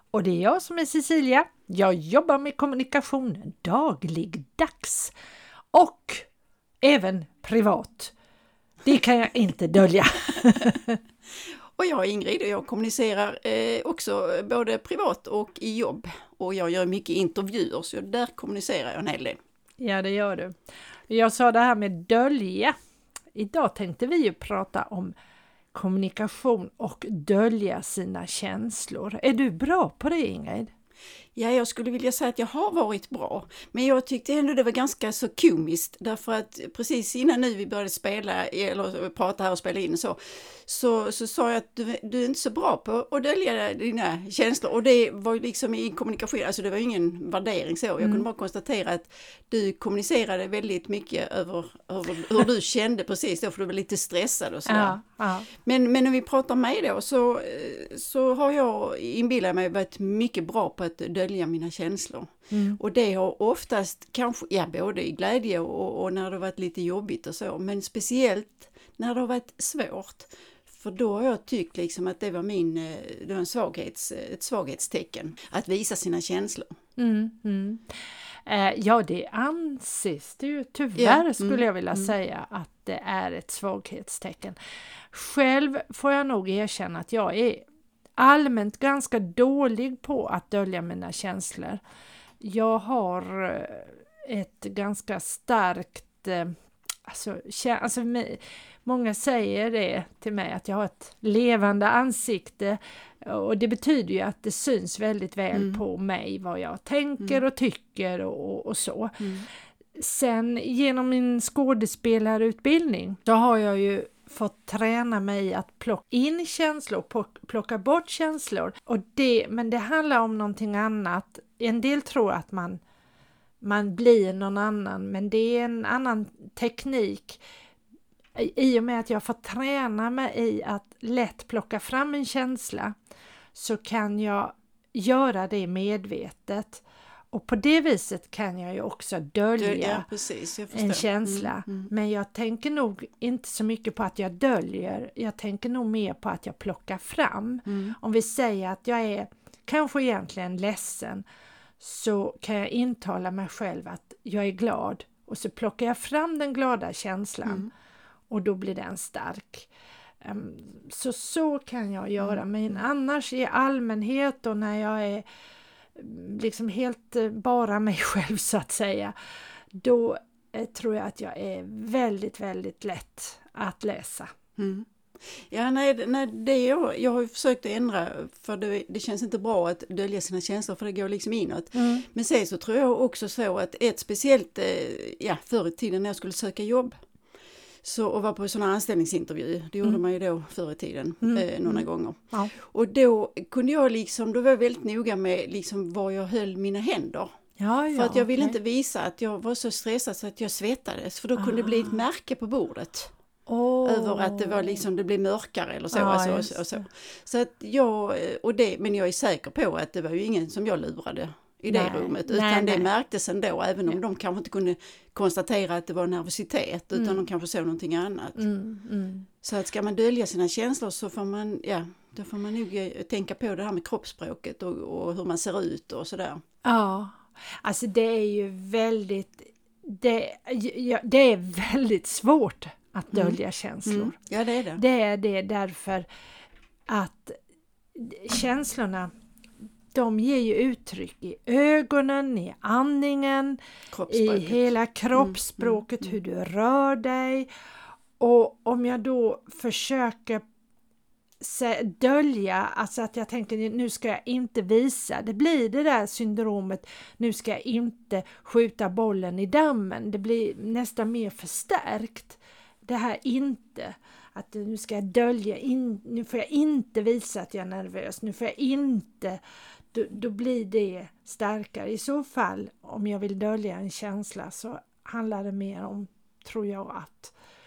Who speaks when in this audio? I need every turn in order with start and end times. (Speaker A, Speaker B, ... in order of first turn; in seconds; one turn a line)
Speaker A: 0.1-5.1
Speaker A: 5.7-6.3
Speaker A: 6.8-8.1
Speaker A: 8.8-11.0
Speaker B: 11.8-19.4
Speaker A: 19.8-20.5
Speaker A: 21.1-22.7
Speaker A: 23.3-25.1
Speaker A: 25.7-30.7
Speaker B: 31.4-55.0
Speaker A: 48.0-48.3
Speaker A: 54.7-55.5
Speaker B: 55.6-76.7
Speaker A: 62.5-62.8
Speaker A: 77.0-84.5
Speaker B: 81.0-82.1
Speaker A: 85.1-91.8
Speaker A: 92.4-96.5
Speaker A: 97.0-109.2
Speaker B: 105.5-105.8
Speaker B: 109.2-109.5
Speaker A: 110.0-122.8
Speaker A: 123.6-127.4
Speaker A: 128.3-132.9
Speaker A: 133.5-140.1
Speaker B: 139.6-141.9
Speaker A: 140.7-151.2
Speaker B: 147.7-147.9
Speaker A: 151.8-157.7
Speaker B: 157.4-157.7
Speaker A: 158.3-159.7
Speaker A: 160.2-165.2
Speaker B: 162.2-162.8
Speaker A: 165.9-169.1
Speaker A: 169.8-174.3
Speaker B: 174.6-187.1
Speaker A: 181.7-182.0
Speaker B: 187.8-197.3
Speaker A: 191.2-192.5
Speaker A: 197.6-198.6
Speaker B: 197.9-203.1
Speaker A: 201.3-202.0
Speaker A: 203.5-204.8
Speaker B: 203.8-218.4
Speaker A: 205.9-206.8
Speaker A: 211.7-212.9
Speaker A: 216.9-217.3
Speaker A: 218.4-219.3
Speaker B: 219.4-226.4
Speaker A: 226.6-234.2
Speaker B: 233.1-234.8
Speaker A: 234.8-236.1
Speaker A: 236.9-237.4
Speaker A: 237.9-239.1
Speaker A: 239.9-247.5
Speaker B: 243.9-246.1
Speaker A: 248.2-250.4
Speaker A: 251.4-269.4
Speaker A: 269.9-277.3